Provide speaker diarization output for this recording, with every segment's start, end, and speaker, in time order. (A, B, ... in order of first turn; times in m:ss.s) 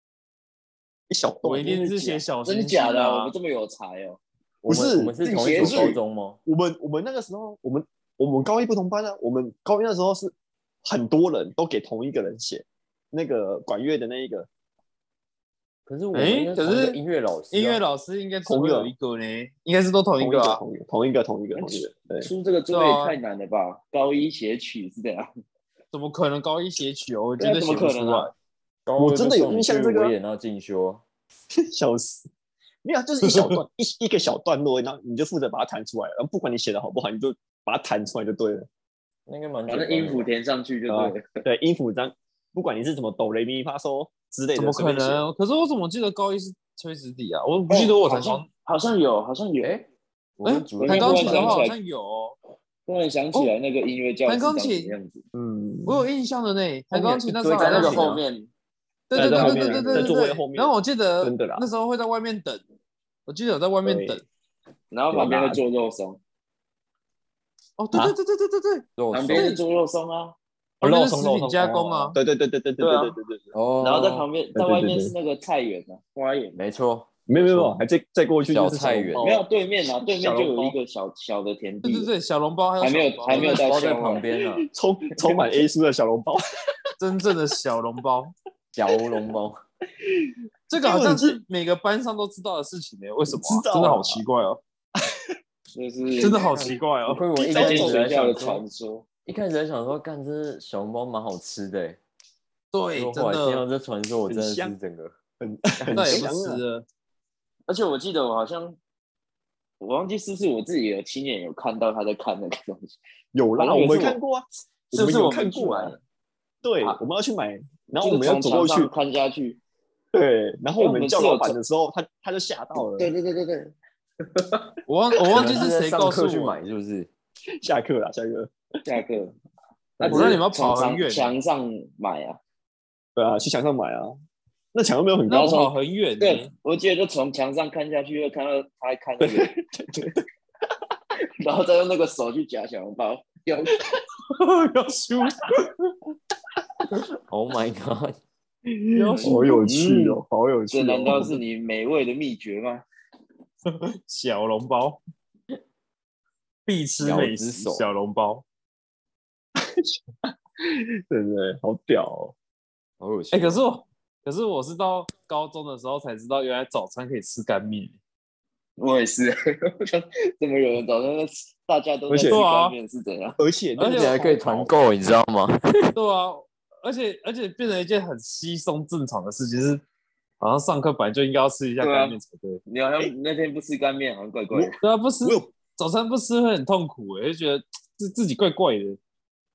0:01.1-0:01.9 A
0:01.4-0:03.3 B
0:01.9-0:04.2 C
0:04.6-0:06.4 D
0:04.7-0:10.3 A
0:05.2-0:06.0 C
0:10.8-0:14.5 A
0:15.9-0:17.8 D
0:16.1-0:17.0 B
0:17.5-0:20.6 B
0:18.5-0:18.9 A
0:20.2-0:22.3 A
0:21.6-0:25.3 C
0:22.7-0:23.2 B
0:25.9-0:28.3 B
0:27.4-0:28.3 C
0:28.9-0:31.0 D
0:29.0-0:30.2 A
0:31.7-0:32.3 A
0:32.8-0:38.7 A
0:33.3-0:33.5 B
0:39.3-0:40.3 D
0:39.7-0:41.2 C
0:40.9-0:45.2 A
0:44.6-0:48.5 B
0:47.7-0:49.7 C
0:49.6-0:51.7 D
0:50.4-0:52.4 B
0:50.8-0:51.8 C
0:52.9-0:55.2 C
0:54.3-0:54.9 B
0:55.3-0:56.0 A
0:55.9-0:58.2 B
0:56.9-0:58.2 A
0:57.5-0:58.5 C
0:59.1-1:02.6 B
0:59.1-1:00.1 C
0:59.1-1:01.7 A
1:03.3-1:04.2 B
1:03.8-1:04.2 A
1:04.9-1:06.2 C
1:05.1-1:05.6 A
1:07.8-1:09.6 B
1:09.0-1:09.5 D
1:09.1-1:10.4 C
1:10.8-1:12.2 B
1:10.8-1:13.5 A
1:12.8-1:13.2 C
1:13.5-1:14.3 D
1:13.8-1:16.6 C
1:14.6-1:15.1 A
1:16.6-1:17.8 D
1:17.3-1:19.4 A
1:18.5-1:19.2 D
1:19.2-1:22.1 C
1:20.0-1:20.8 A
1:21.8-1:23.6 B
1:22.8-1:24.2 C
1:23.3-1:24.7 D
1:24.7-1:26.4 A
1:25.2-1:25.6 C
1:27.0-1:28.3 B
1:28.8-1:29.6 D
1:30.1-1:31.4 A
1:30.7-1:34.6 B
1:33.3-1:34.2 A
1:35.7-1:36.5 C
1:36.2-1:37.2 B
1:36.4-1:38.6 D
1:37.4-1:38.0 A
1:37.5-1:39.1 C
1:39.3-1:42.0 D
1:42.7-1:43.7 B
1:42.9-1:45.2 D
1:44.3-1:44.8 A
1:45.4-1:46.6 A
1:45.9-1:46.9 B
1:47.7-1:48.8 C
1:49.8-1:53.0 C
1:53.3-1:56.0 A
1:53.6-1:54.2 C
1:54.9-1:56.0 C
1:56.6-1:58.9 A
1:58.0-1:59.6 C
2:00.1-2:03.1 A
2:00.8-2:01.6 C
2:02.8-2:04.7 C
2:04.9-2:06.6 B
2:05.3-2:07.1 D
2:05.3-2:05.6 A
2:07.6-2:08.5 A
2:08.9-2:09.4 C
2:10.0-2:10.4 A
2:10.0-2:12.4 C
2:10.1-2:11.3 B
2:13.2-2:14.1 A
2:14.7-2:15.6 A
2:15.3-2:16.5 B
2:15.3-2:19.5 C
2:19.2-2:20.2 A
2:21.4-2:23.8 C
2:24.3-2:25.7 B
2:27.3-2:28.2 D
2:28.7-2:31.4 A
2:28.9-2:29.6 B
2:29.2-2:30.2 C
2:30.7-2:32.8 C
2:33.7-2:35.0 B
2:36.7-2:38.4 B
2:37.0-2:37.8 D
2:39.6-2:40.0 A
2:40.6-2:42.4 A
2:43.0-2:43.6 D
2:43.3-2:48.0 B
2:48.8-2:53.4 C
2:52.1-2:52.4 A
2:52.3-2:52.8 B
2:53.4-2:54.8 A
2:53.8-2:54.2 B
2:53.9-2:55.9 D
2:56.0-2:59.8 B
3:00.4-3:02.6 B
3:01.8-3:04.8 C
3:04.5-3:05.5 A
3:04.8-3:09.0 B